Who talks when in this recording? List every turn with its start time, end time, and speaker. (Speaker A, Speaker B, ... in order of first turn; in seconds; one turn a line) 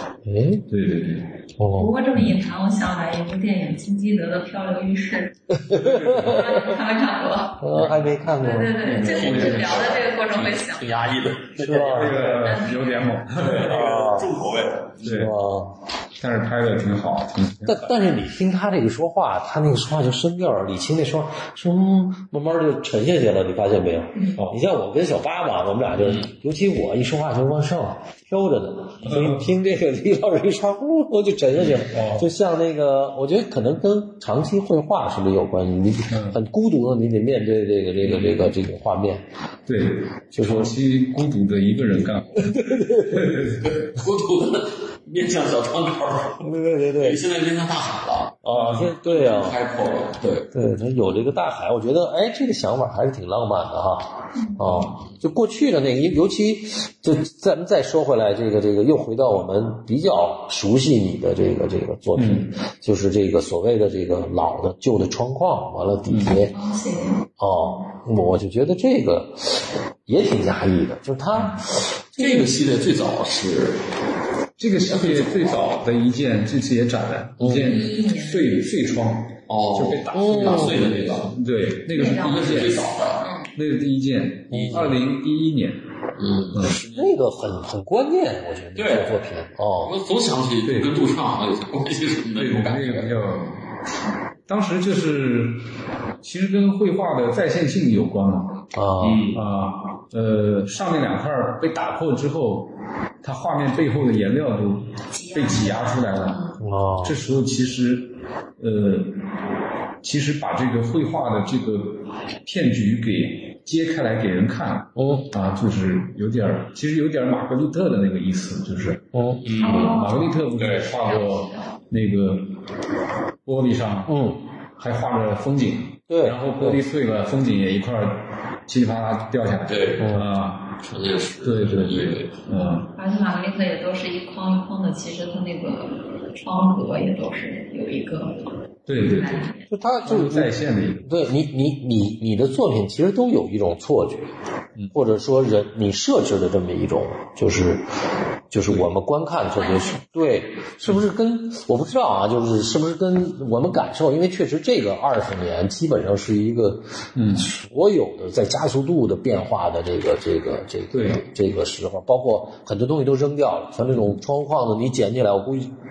Speaker A: 0.2-0.7
Speaker B: 0.7-1.4
Speaker A: 1.6-1.9
Speaker C: 1.8-10.9
Speaker A: 5.5-6.7
Speaker B: 5.7-6.6
Speaker A: 7.6-8.8
Speaker B: 7.7-8.2
Speaker B: 8.8-10.1
Speaker D: 8.9-12.6
Speaker A: 11.6-12.3
Speaker B: 11.8-14.0
Speaker C: 12.3-13.1
Speaker D: 13.3-15.2
Speaker A: 13.6-14.4
Speaker B: 15.0-15.3
Speaker A: 15.0-15.8
Speaker B: 16.2-18.0
Speaker A: 17.6-39.2
Speaker B: 29.0-29.5
Speaker B: 31.8-32.3
Speaker B: 36.1-36.4
Speaker B: 38.0-38.5
Speaker B: 39.7-43.8
Speaker A: 40.3-40.8
Speaker A: 42.4-43.3
Speaker D: 43.5-50.5
Speaker A: 46.4-47.2
Speaker A: 48.4-49.6
Speaker B: 48.5-48.9
Speaker A: 50.5-66.5
Speaker B: 62.1-62.5
Speaker B: 66.1-66.5
Speaker C: 66.5-67.3
Speaker A: 67.4-72.5
Speaker B: 71.3-71.6
Speaker D: 72.2-73.9
Speaker B: 74.6-82.9
Speaker D: 74.9-75.7
Speaker A: 77.4-77.8
Speaker C: 77.5-78.6
Speaker D: 79.5-81.3
Speaker A: 80.1-81.0
Speaker C: 81.9-83.5
Speaker D: 82.0-83.3
Speaker B: 83.5-85.8
Speaker A: 84.5-85.0
Speaker D: 84.5-84.9
Speaker D: 86.2-87.2
Speaker B: 86.5-86.8
Speaker A: 86.6-90.0
Speaker D: 88.8-89.3
Speaker D: 89.8-93.5
Speaker B: 90.7-91.0
Speaker B: 92.3-93.6
Speaker B: 94.5-98.7
Speaker A: 98.7-99.3
Speaker D: 99.0-99.4
Speaker B: 99.3-109.2
Speaker C: 105.1-106.6
Speaker A: 106.6-107.2
Speaker B: 110.0-119.2
Speaker A: 115.0-115.3
Speaker A: 119.1-119.5
Speaker D: 119.4-120.0
Speaker C: 119.6-121.7
Speaker B: 119.7-122.6
Speaker D: 120.6-120.9
Speaker B: 123.5-132.9
Speaker A: 124.1-124.4
Speaker A: 126.1-126.8
Speaker D: 129.7-130.1
Speaker A: 130.0-130.3
Speaker D: 130.8-132.3
Speaker C: 132.8-139.7
Speaker B: 138.9-139.5
Speaker A: 139.7-144.3
Speaker B: 140.0-141.2
Speaker A: 144.9-147.9
Speaker A: 148.5-165.7
Speaker C: 149.6-150.3
Speaker B: 157.2-157.5
Speaker B: 160.9-161.2